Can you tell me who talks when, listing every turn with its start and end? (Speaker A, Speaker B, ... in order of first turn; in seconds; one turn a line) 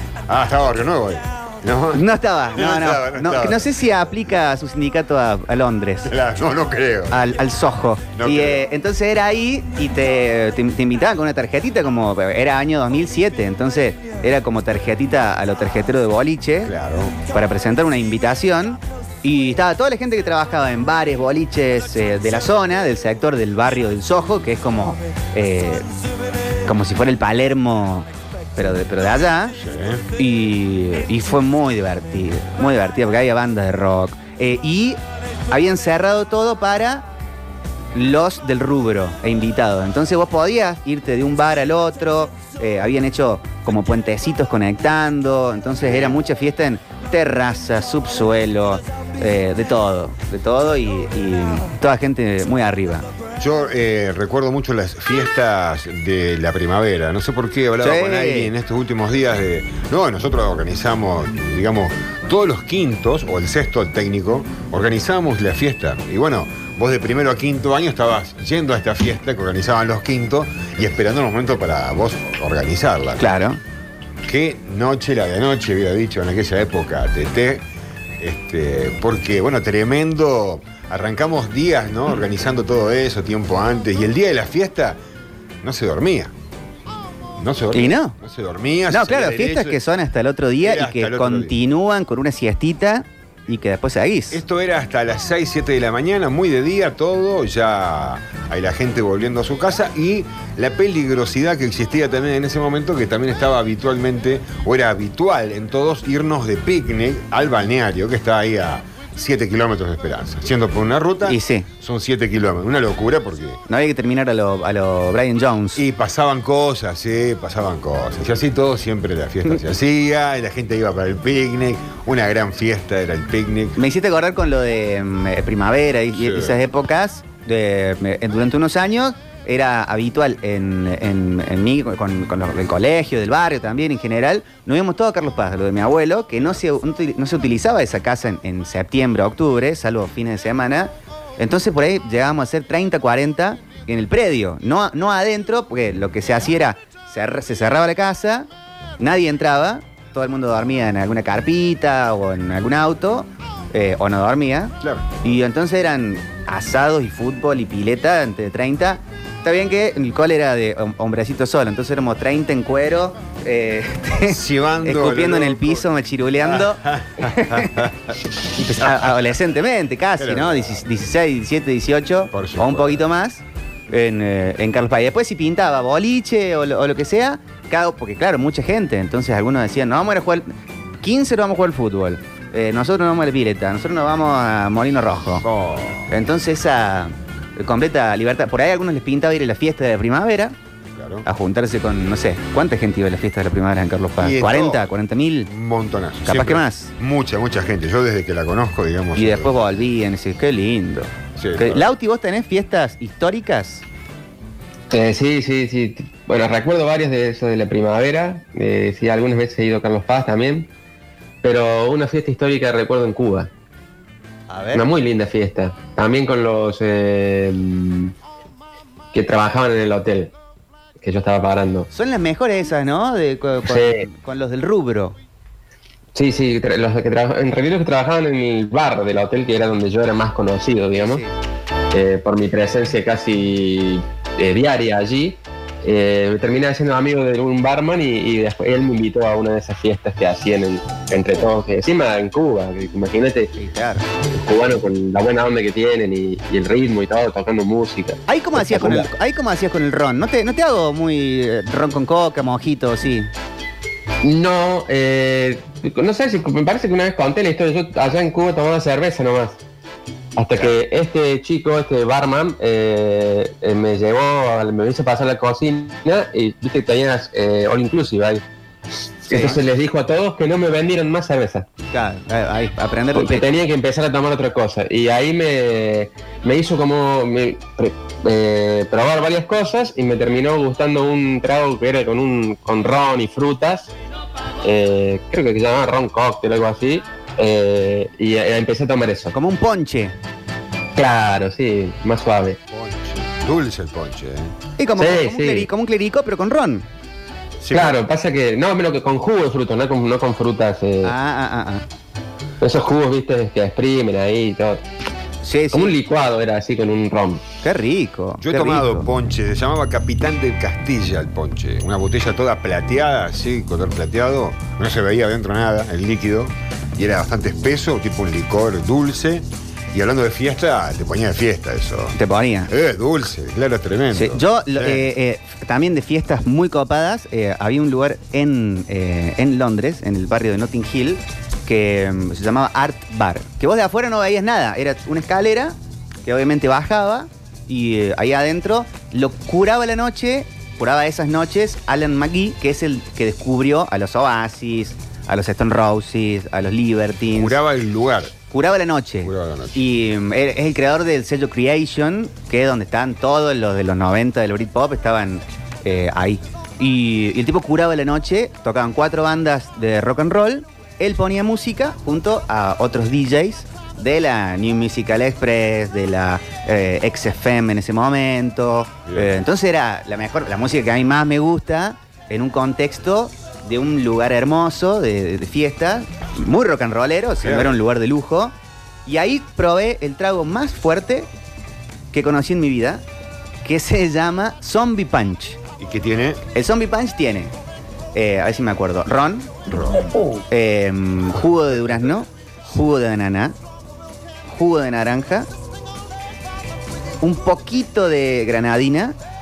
Speaker A: 0.3-3.8
Speaker B: 1.9-6.1
Speaker A: 6.0-7.3
Speaker B: 7.1-16.7
Speaker A: 8.1-8.6
Speaker A: 16.6-17.2
Speaker B: 17.3-25.9
Speaker B: 26.6-29.6
Speaker A: 29.5-30.0
Speaker B: 30.2-37.1
Speaker B: 37.9-53.1
Speaker A: 45.8-46.2
Speaker A: 53.4-73.3
Speaker B: 57.8-58.5
Speaker B: 73.2-73.6
Speaker A: 74.2-77.6
Speaker A: 78.2-85.0
Speaker A: 85.6-86.3
Speaker A: 87.4-89.8
Speaker B: 87.7-88.1
Speaker B: 88.9-94.4
Speaker A: 90.6-91.6
Speaker A: 94.3-113.6
Speaker B: 111.2-111.7
Speaker B: 113.7-115.8
Speaker A: 115.8-123.8
Speaker B: 123.8-148.5
Speaker A: 126.1-126.6
Speaker B: 149.0-167.9
Speaker A: 154.8-155.2
Speaker A: 164.3-165.8
Speaker A: 166.4-168.1
Speaker B: 168.5-185.4
Speaker A: 168.8-169.1
Speaker A: 170.2-170.8
Speaker A: 172.3-173.1
Speaker A: 185.4-186.1
Speaker B: 186.1-190.6
Speaker A: 190.9-191.2
Speaker B: 191.2-195.5
Speaker A: 194.2-194.9
Speaker A: 195.4-199.8
Speaker B: 196.2-196.9
Speaker B: 199.2-203.8
Speaker A: 201.4-201.9
Speaker C: 204.9-210.7
Speaker C: 211.4-213.5
Speaker B: 214.5-214.9
Speaker C: 214.7-218.1
Speaker C: 219.1-220.3
Speaker C: 221.0-221.9
Speaker B: 221.9-225.2
Speaker C: 223.7-224.1
Speaker C: 226.1-231.2
Speaker B: 230.9-231.3
Speaker C: 231.9-243.5
Speaker B: 243.6-244.0
Speaker C: 244.3-249.1
Speaker B: 248.3-253.3
Speaker C: 254.2-259.6
Speaker C: 260.4-268.4
Speaker C: 269.2-271.7
Speaker B: 269.3-269.6
Speaker B: 271.9-273.4
Speaker C: 273.1-283.9
Speaker C: 284.6-289.3
Speaker B: 289.3-290.1
Speaker C: 290.9-292.6
Speaker A: 292.7-294.5
Speaker B: 294.8-296.9
Speaker C: 295.0-295.7
Speaker A: 297.6-298.0
Speaker C: 297.7-301.1
Speaker B: 301.0-301.8
Speaker C: 302.6-304.8
Speaker B: 305.4-306.0
Speaker C: 305.7-307.4
Speaker B: 307.6-309.1
Speaker A: 308.4-322.1
Speaker B: 322.1-322.7
Speaker A: 322.7-325.1
Speaker B: 324.1-347.6
Speaker A: 347.3-348.4
Speaker B: 348.5-378.5
Speaker A: 349.2-349.8
Speaker A: 369.1-369.4
Speaker A: 377.4-377.8
Speaker B: 379.1-381.3
Speaker B: 382.1-383.0
Speaker B: 383.6-385.6
Speaker A: 385.8-386.4
Speaker B: 386.5-387.5
Speaker B: 388.1-389.6
Speaker A: 389.7-390.1
Speaker B: 390.5-393.5
Speaker B: 394.5-395.5
Speaker B: 397.2-399.1